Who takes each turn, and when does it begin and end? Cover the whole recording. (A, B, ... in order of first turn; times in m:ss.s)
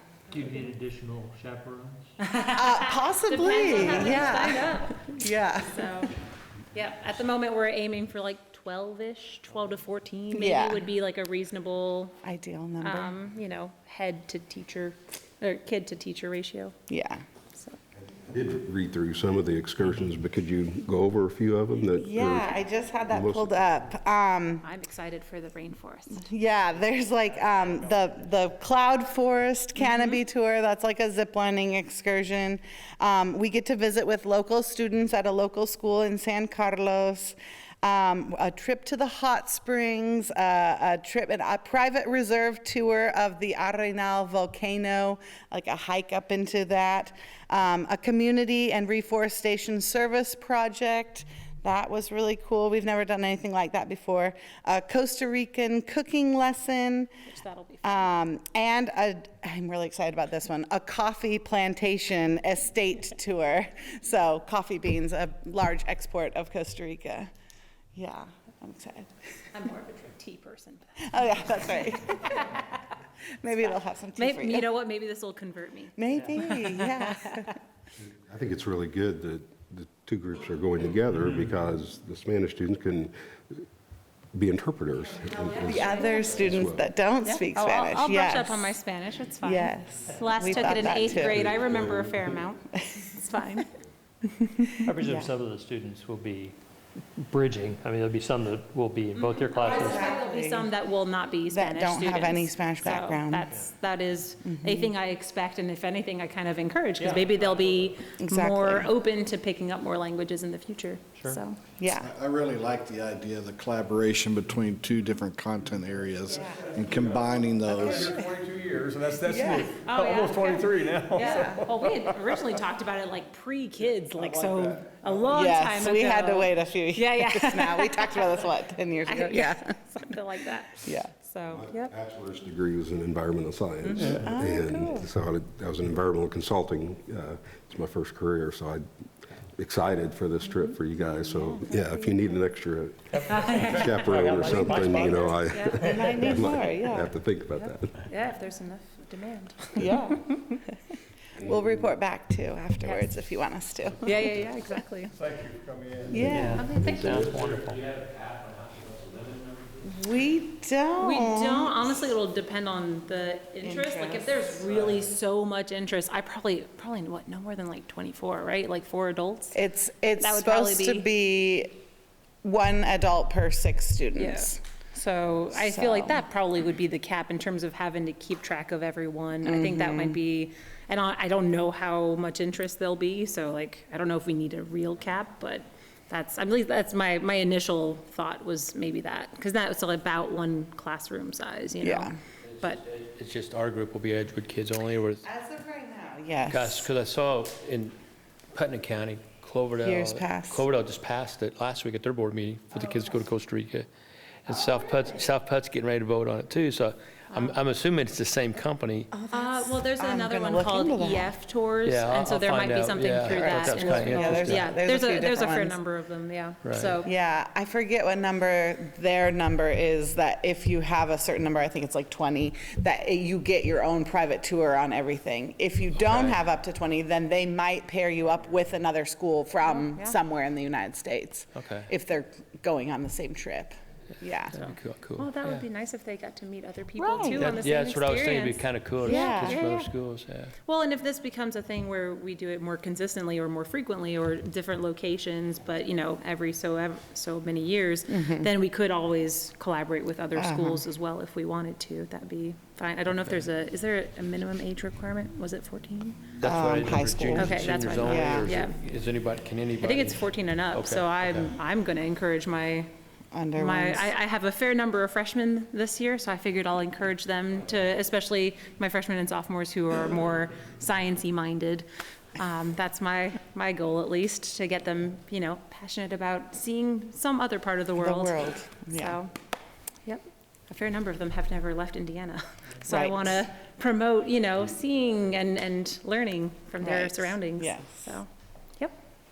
0:00.3-0:02.1 A
0:02.2-0:05.1 B
0:02.5-0:05.9 C
0:05.6-0:06.1 B
0:06.7-0:12.2 B
0:10.3-0:10.8 C
0:12.2-0:13.1 C
0:12.8-0:16.8 B
0:16.9-0:17.2 C
0:18.3-0:23.6 D
0:22.0-0:24.7 C
0:24.6-0:26.2 B
0:26.1-0:57.1 C
0:29.8-0:30.2 B
0:57.2-0:58.1 B
0:57.8-1:07.3 C
1:07.9-1:09.1 C
1:09.5-1:12.6 B
1:11.0-1:12.6 C
1:13.4-1:14.6 C
1:14.2-1:17.4 B
1:16.0-1:17.5 C
1:18.3-1:23.6 D
1:24.3-1:26.9 D
1:25.3-1:26.2 B
1:25.6-1:28.8 C
1:27.2-1:33.7 B
1:29.4-1:31.5 C
1:30.8-1:32.4 D
1:32.7-1:33.4 C
1:34.4-1:35.3 C
1:34.8-1:36.6 A
1:37.2-1:40.1 A
1:39.1-1:51.6 B
1:39.6-1:40.7 C
1:41.5-1:43.5 C
1:44.4-1:44.9 C
1:47.0-1:47.4 A
1:48.2-1:48.9 C
1:51.2-1:51.4 A
1:51.8-1:52.1 C
1:51.9-1:58.2 E
1:56.5-2:01.9 F
1:57.7-1:58.3 C
1:59.2-1:59.7 C
1:59.7-2:08.5 B
2:01.2-2:01.7 C
2:04.2-2:05.0 F
2:05.3-2:09.7 C
2:09.0-2:11.9 B
2:10.8-2:11.1 C
2:11.5-2:18.8 D
2:13.8-2:15.1 C
2:19.5-2:27.9 D
2:21.1-2:22.1 C
2:23.1-2:26.3 A
2:23.3-2:23.9 B
2:25.5-2:25.8 B
2:25.8-2:27.1 C
2:27.6-2:30.2 B
2:29.8-2:30.2 C
2:31.4-2:31.7 D
2:31.4-2:34.3 C
2:34.0-2:35.1 B
2:35.2-2:36.2 F
2:36.1-2:36.7 C
2:36.2-2:37.8 A
2:36.3-2:37.5 B
2:36.7-2:37.2 D
2:37.1-2:39.8 G
2:39.8-2:41.9 C
2:41.0-2:49.6 B
2:43.6-2:44.7 C
2:49.5-2:51.8 C
2:50.2-2:51.0 B
2:52.4-2:54.6 C
2:54.1-3:12.8 B
2:55.5-2:56.2 C
2:59.4-3:00.2 C
3:11.8-3:12.1 C
3:12.6-3:15.2 G
3:15.2-3:16.9 C
3:16.5-3:18.0 G
3:18.5-3:23.9 G
3:19.8-3:20.6 C
3:24.4-3:29.1 G
3:27.3-3:27.6 B
3:29.1-3:31.3 C
3:29.3-3:37.1 B
3:31.8-3:34.7 G
3:33.2-3:35.8 C
3:36.6-3:36.9 G
3:37.0-3:54.6 C
3:46.0-3:46.4 G
3:49.6-3:50.1 B
3:51.5-3:51.9 G
3:54.5-3:59.9 B
3:54.5-3:55.6 G
3:57.0-3:57.7 C
3:57.3-4:00.5 G
3:59.0-3:59.6 C
4:00.6-4:16.2 B
4:08.1-4:08.5 C
4:10.4-4:10.8 C
4:16.4-4:21.5 G
4:16.4-4:18.5 C
4:17.4-4:18.8 B
4:19.8-4:22.9 B
4:23.3-4:24.1 C
4:23.6-4:39.3 B
4:38.0-4:39.2 C
4:40.0-4:48.3 B
4:42.9-4:43.4 C
4:46.8-4:48.1 C